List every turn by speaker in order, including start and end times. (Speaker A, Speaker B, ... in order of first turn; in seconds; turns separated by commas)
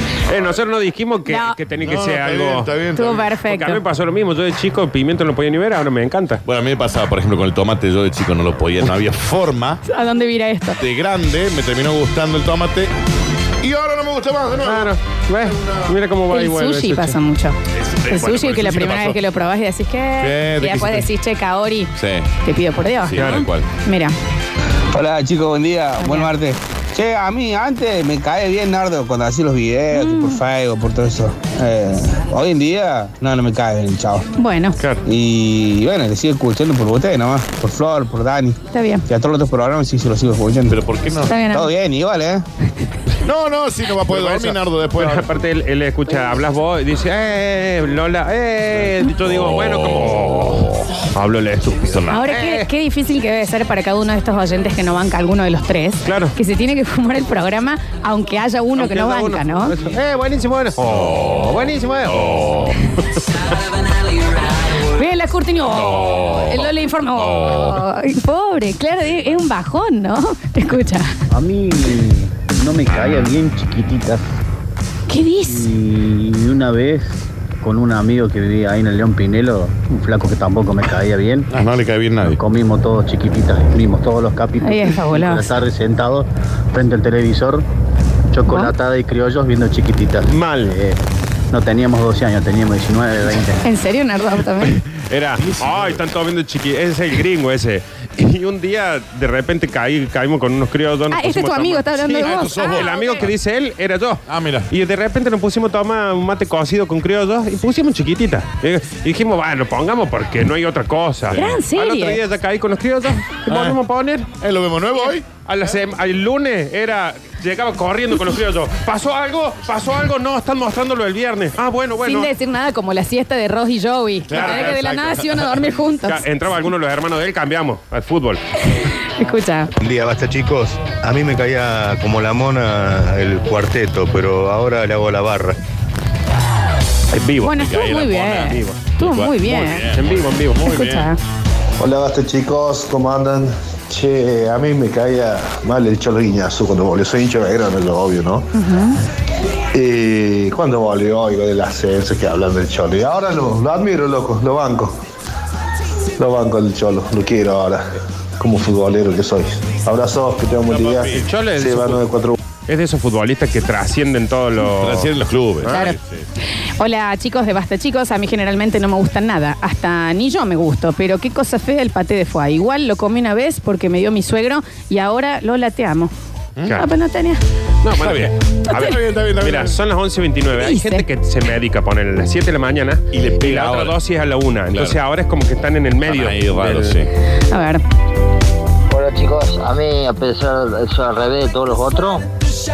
Speaker A: 0.3-2.7, Speaker B: 1.3-1.6, Speaker C: 1.8-3.3, Speaker B: 3.0-3.8, Speaker A: 3.3-6.4, Speaker C: 6.5-9.8, Speaker B: 9.9-10.8, Speaker C: 10.8-12.9, Speaker C: 13.6-15.9, Speaker A: 14.6-17.2, Speaker B: 16.3-17.6, Speaker C: 17.8-19.2, Speaker B: 18.1-21.9, Speaker C: 20.2-21.1, Speaker C: 22.0-22.3, Speaker B: 22.4-24.1, Speaker C: 23.0-23.7, Speaker A: 23.2-23.5, Speaker D: 24.9-34.3, Speaker B: 26.0-26.3, Speaker B: 29.9-30.4, Speaker B: 34.4-34.8, Speaker D: 35.1-40.8, Speaker B: 38.7-39.0, Speaker C: 40.7-41.4, Speaker B: 41.3-41.7, Speaker D: 41.5-42.5, Speaker C: 43.2-45.3, Speaker A: 44.1-52.7, Speaker C: 49.2-50.9, Speaker C: 51.8-52.2, Speaker B: 52.1-59.7, Speaker A: 56.0-56.3, Speaker A: 58.8-62.6, Speaker C: 60.8-62.8, Speaker B: 64.9-71.1, Speaker C: 65.7-67.8, Speaker E: 71.3-74.2, Speaker C: 72.9-73.2, Speaker B: 75.1-75.7, Speaker E: 75.5-81.5, Speaker C: 81.5-82.4, Speaker E: 82.2-87.7, Speaker B: 84.6-85.5, Speaker E: 88.3-91.0, Speaker A: 90.3-90.8, Speaker E: 91.5-93.6, Speaker B: 93.6-94.8, Speaker A: 95.1-114.3, Speaker C: 95.4-96.1, Speaker B: 101.1-103.2, Speaker C: 102.0-103.3, Speaker C: 104.3-104.7, Speaker B: 111.3-112.2, Speaker C: 113.5-113.8, Speaker C: 114.4-115.3, Speaker A: 115.5-122.3, Speaker B: 122.0-126.2, Speaker C: 124.3-125.7, Speaker A: 124.3-124.8, Speaker A: 126.0-128.4, Speaker B: 128.8-129.7, Speaker F: 129.8-135.6, Speaker A: 137.1-137.7, Speaker B: 137.4-139.9, Speaker C: 137.5-141.1, Speaker A: 138.3-138.8, Speaker A: 139.9-140.7, Speaker B: 140.7-141.2, Speaker G: 141.8-148.5, Speaker B: 148.5-149.0, Speaker G: 149.7-154.9, Speaker G: 156.2-157.8, Speaker G: 158.4-162.3, Speaker C: 160.7-161.3, Speaker A: 161.1-162.1, Speaker A: 162.7-165.9, Speaker C: 164.6-166.3, Speaker B: 165.7-165.9, Speaker B: 166.8-176.1, Speaker B: 176.7-177.4, Speaker A: 177.8-187.0, Speaker C: 178.0-179.8, Speaker B: 180.6-181.1, Speaker C: 183.1-184.0, Speaker C: 186.0-187.1, Speaker B: 187.5-187.8, Speaker H: 188.9-192.3